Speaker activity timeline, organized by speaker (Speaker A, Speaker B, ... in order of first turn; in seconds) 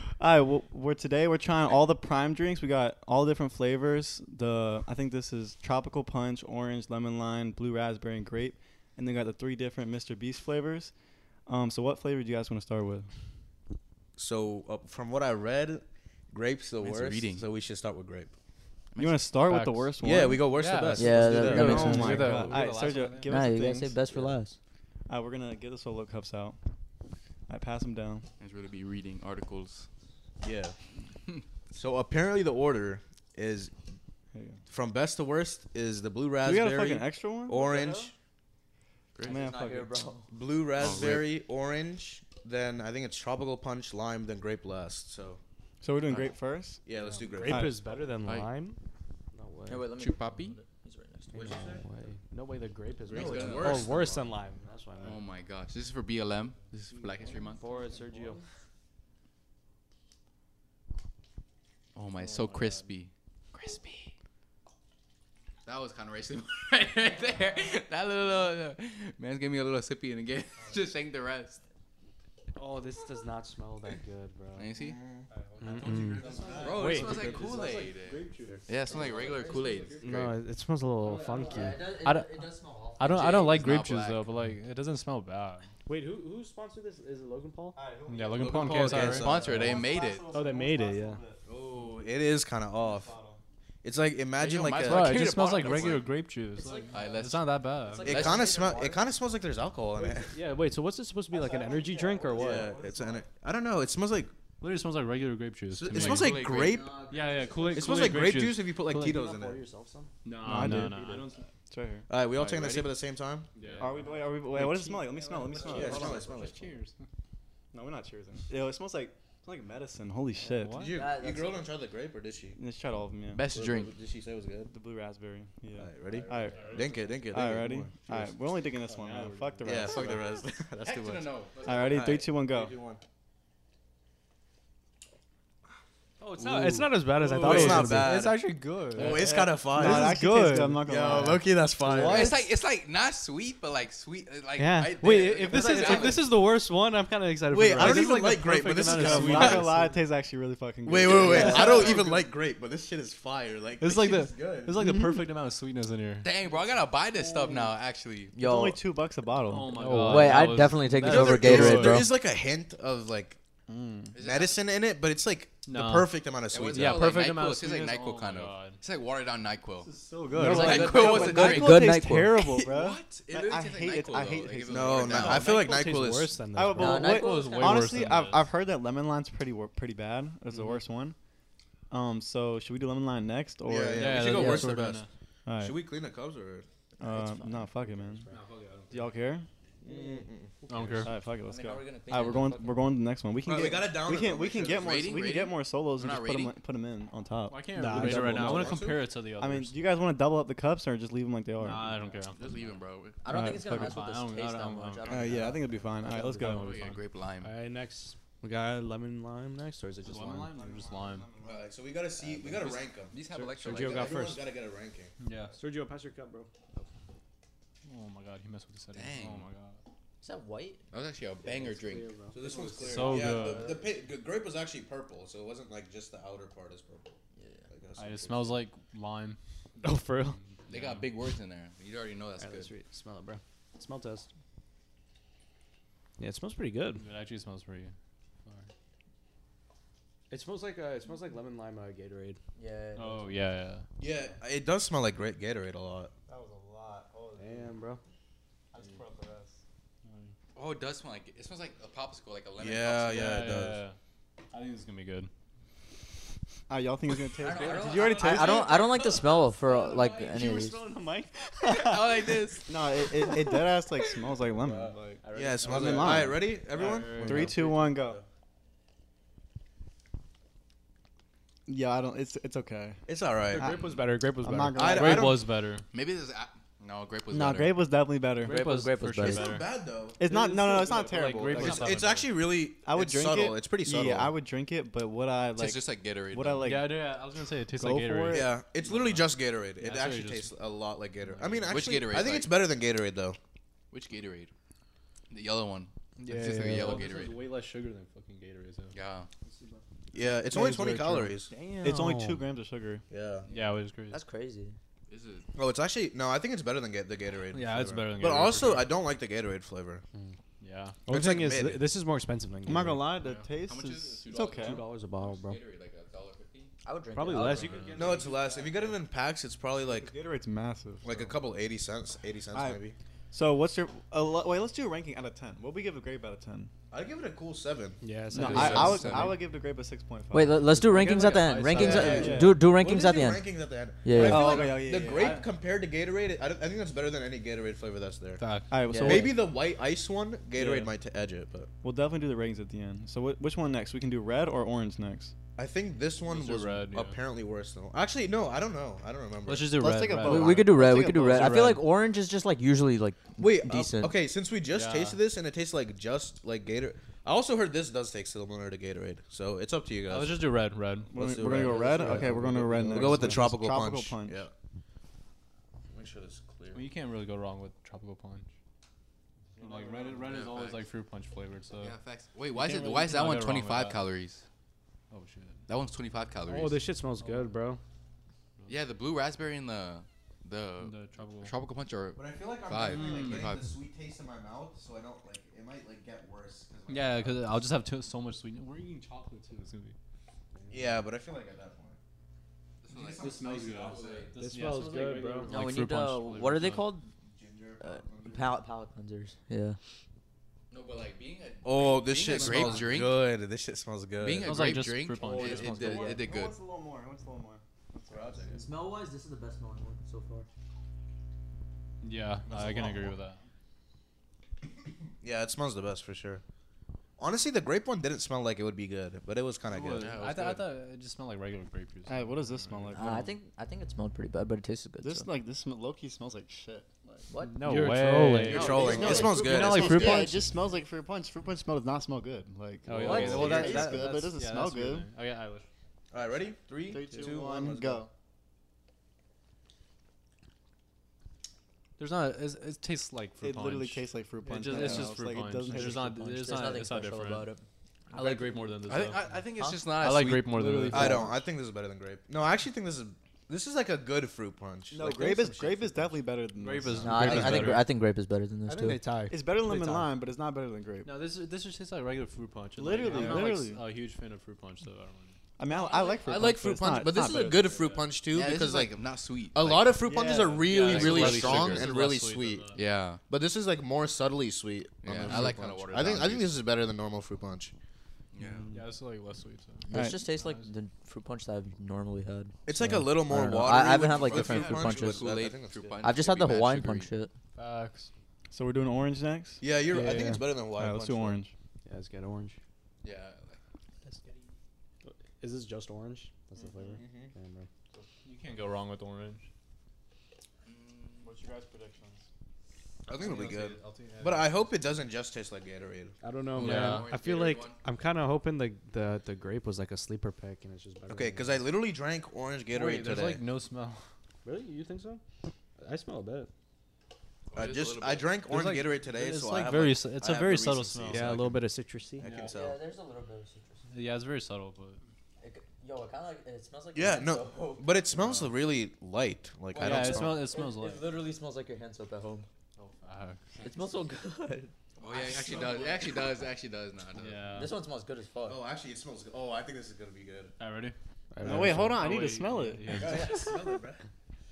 Speaker A: 0.2-10.9, 11.5-13.1, 18.9-20.5, 21.3-24.3, 25.1-26.6, 27.5-28.3, 34.3-34.6, 36.4-37.6, 39.2-40.0, 45.8-46.8, 47.5-47.8, 57.6-58.3, 75.3-76.5, 81.0-81.7, 87.8-91.4, 92.8-93.4, 101.3-103.3, 110.4-112.1, 113.8-116.4, 117.7-120.9, 122.5-123.5, 124.7-126.8, 127.3-130.4, 131.6-132.7, 139.0-141.5, 147.8-152.2, 154.8-155.2, 158.3-159.8, 163.7-164.2, 170.3-175.4, 176.5-181.2, 181.9-184.8, 185.4-185.8, 187.0-188.3, 188.9-189.5, 191.0-198.8, 199.4-202.0, 203.3-204.0, 205.1-206.9, 210.4-211.7, 246.3-247.8, 248.7-249.6, 256.7-268.2, 271.7-273.0, 273.6-275.4, 277.3-278.6, 280.2-287.2, 287.7-288.5, 300.5-301.3, 301.8-303.0, 312.6-314.8, 319.8-321.3, 322.5-322.8, 323.3-326.7, 328.3-330.8, 331.7-332.6, 334.1-335.4, 338.7-339.4, 340.6-340.9, 341.8-345.3, 349.8-351.8, 361.1-364.4, 369.6-370.4, 372.5-373.1, 402.3-402.8, 405.2-408.6, 422.1-423.4, 425.0-427.3, 428.5-435.1, 436.8-438.1, 443.4-446.5, 454.9-457.8, 459.3-461.1, 462.8-463.8, 465.6-467.8, 470.1-470.7, 475.3-475.7, 479.9-480.2, 488.5-491.5, 496.6-497.0, 501.2-502.3, 541.4-543.6
Speaker B: 14.2-18.3, 20.0-22.1, 30.4-30.8, 31.7-33.7, 34.7-38.1, 40.3-45.4, 46.9-47.8, 51.3-51.8, 53.1-54.3, 74.8-77.3, 88.4-89.5, 91.5-93.2, 93.8-96.1, 98.0-100.4, 102.3-104.3, 105.7-107.0, 107.7-109.6, 112.1-113.5, 115.7-116.7, 120.8-122.6, 123.5-124.7, 125.8-128.3, 129.6-133.0, 137.4-140.2, 140.8-142.4, 145.5-146.2, 147.5-149.7, 150.8-154.8, 161.0-163.4, 164.2-167.2, 174.7-176.4, 183.6-185.0, 185.6-186.7, 189.8-190.5, 193.4-195.2, 198.2-199.0, 211.4-213.1, 213.7-215.1, 222.3-227.2, 227.7-228.6, 244.0-246.1, 252.6-253.8, 264.7-268.2, 273.1-273.7, 274.7-275.5, 279.2-280.2, 281.5-284.3, 288.3-293.4, 300.1-301.5, 303.1-303.5, 305.6-310.0, 311.1-311.9, 317.9-320.1, 321.0-322.9, 326.9-328.0, 331.7-338.4, 339.0-341.7, 345.6-349.8, 353.4-360.5, 361.1-364.5, 365.9-366.9, 382.1-387.7, 390.7-392.0, 392.9-394.3, 397.3-398.5, 401.6-404.7, 408.1-408.6, 412.4-413.1, 415.2-416.4, 417.2-420.2, 428.5-430.3, 433.1-433.6, 436.1-438.1, 450.9-456.1, 457.0-457.8, 466.2-468.9, 469.5-472.7, 473.3-477.7, 482.6-486.0, 489.6-491.4, 496.9-497.3, 503.1-506.1, 511.1-513.4, 517.5-521.6, 522.2-522.8, 526.9-530.5, 535.1-536.1, 538.4-540.5, 542.9-544.0
Speaker C: 16.8-17.4, 18.9-19.3, 28.4-29.9, 39.2-39.4, 40.8-41.3, 48.2-48.5, 49.9-50.6, 53.1-53.9, 55.0-57.6, 62.0-63.1, 65.7-71.6, 74.6-75.0, 76.5-80.3, 83.0-84.3, 88.9-90.2, 94.4-96.0, 96.9-97.5, 98.2-98.4, 105.9-106.8, 123.3-123.9, 130.8-132.1, 142.0-146.2, 156.2-158.3, 164.1-164.6, 166.5-171.9, 172.5-175.6, 194.8-196.6, 202.2-203.2, 206.4-207.6, 212.6-214.3, 218.9-219.4, 220.9-222.1, 230.7-232.7, 250.5-253.4, 257.4-259.1, 261.6-262.8, 275.9-277.8, 285.6-286.7, 291.7-292.5, 293.9-294.5, 295.3-297.4, 298.9-299.3, 305.1-305.5, 313.6-316.7, 328.3-329.4, 370.2-370.9, 371.8-374.4, 375.7-376.8, 378.7-383.7, 392.8-394.4, 400.7-403.2, 404.2-406.6, 419.9-420.7, 448.8-450.8, 468.3-470.0, 470.8-471.9, 472.7-473.2, 475.0-476.6, 478.3-478.7, 484.1-487.1, 493.0-493.6, 500.6-501.3, 506.6-507.8, 517.5-518.3, 535.0-537.6
Speaker D: 19.5-23.4, 62.2-62.9, 76.1-80.2, 83.0-85.7, 88.1-89.3, 94.8-98.2, 104.6-106.4, 107.1-108.7, 110.2-111.2, 113.6-114.2, 115.7-117.0, 120.4-120.9, 126.5-127.0, 128.8-129.9, 137.2-138.1, 149.3-149.9, 153.8-156.3, 159.4-162.0, 165.7-168.8, 169.8-170.8, 177.0-178.5, 183.9-185.1, 188.3-189.1, 190.7-191.1, 197.5-199.8, 201.6-202.5, 203.5-205.4, 206.0-207.0, 210.0-211.3, 215.2-215.6, 217.8-219.8, 222.8-223.8, 227.9-229.4, 229.9-231.1, 237.0-237.9, 242.9-243.8, 250.0-250.3, 253.1-254.0, 254.5-255.3, 265.2-267.8, 274.8-275.8, 278.4-279.7, 280.3-282.3, 286.6-290.6, 291.2-291.8, 296.2-298.9, 303.5-304.2, 307.5-308.9, 310.6-311.0, 313.2-313.4, 317.3-319.0, 330.9-332.4, 338.4-338.8, 346.2-347.2, 349.4-351.8, 354.7-355.2, 360.1-361.4, 361.9-362.8, 366.7-368.5, 369.6-371.9, 372.9-374.0, 375.1-375.6, 377.2-377.6, 380.8-381.6, 386.9-389.9, 393.2-396.9, 404.4-406.1, 412.0-413.4, 419.7-423.0, 427.6-428.9, 432.9-435.7, 442.0-447.5, 448.1-451.3, 456.6-457.8, 461.1-465.4, 467.5-468.1, 470.6-472.8, 478.7-480.7, 487.6-488.1, 498.2-499.5, 503.1-504.8, 506.6-507.1, 512.7-514.0, 518.6-521.3, 523.9-525.0, 528.2-528.5, 529.8-531.2, 532.8-533.6, 537.1-537.8, 540.6-543.4
Speaker E: 20.9-22.6, 23.3-24.6, 37.5-38.1, 39.2-40.4, 49.7-51.7, 81.3-83.5, 96.5-97.0, 97.8-99.1, 106.5-108.0, 120.9-121.7, 151.1-152.0, 158.3-158.8, 160.0-162.1, 170.5-172.5, 176.8-178.1, 187.0-188.3, 189.9-190.2, 191.4-192.8, 203.2-205.7, 220.2-220.8, 227.4-227.7, 242.6-243.5, 257.4-260.9, 278.4-279.6, 304.1-304.8, 316.8-317.8, 330.3-333.4, 334.0-334.8, 338.9-339.3, 350.2-354.1, 395.4-397.1, 397.8-399.8, 405.3-406.2, 408.5-410.5, 422.9-425.3, 427.3-427.6, 428.7-429.8, 446.4-447.6, 457.0-459.0, 479.9-485.3, 486.0-487.3, 522.5-523.8, 525.4-527.9, 529.8-532.5, 533.6-534.7, 537.5-538.6
Speaker F: 46.9-48.8, 49.3-49.9, 51.3-55.2, 57.2-58.4, 72.5-74.7, 75.6-82.4, 85.9-87.8, 90.3-91.2, 100.1-102.7, 107.5-111.3, 113.6-116.1, 129.1-129.7, 136.2-142.4, 144.6-149.9, 159.7-161.8, 170.1-170.9, 175.2-177.3, 190.8-191.1, 197.8-198.7, 207.4-210.6, 213.3-214.4, 215.6-216.5, 221.4-223.9, 229.8-230.4, 232.4-234.3, 236.2-237.0, 240.3-242.4, 247.4-248.0, 273.5-275.0, 280.3-281.7, 296.4-297.0, 299.4-299.8, 301.4-302.5, 311.1-313.1, 314.4-315.6, 317.1-318.2, 328.0-329.3, 331.7-332.4, 361.8-363.3, 376.4-377.8, 394.4-395.6, 427.5-430.4, 432.9-434.3, 444.6-445.0, 450.7-451.2, 458.6-460.1, 462.9-463.6, 489.9-490.5, 491.8-492.6, 495.0-497.7, 506.2-511.6, 514.4-515.2, 515.8-516.5, 518.5-520.2, 521.1-522.4, 541.3-542.2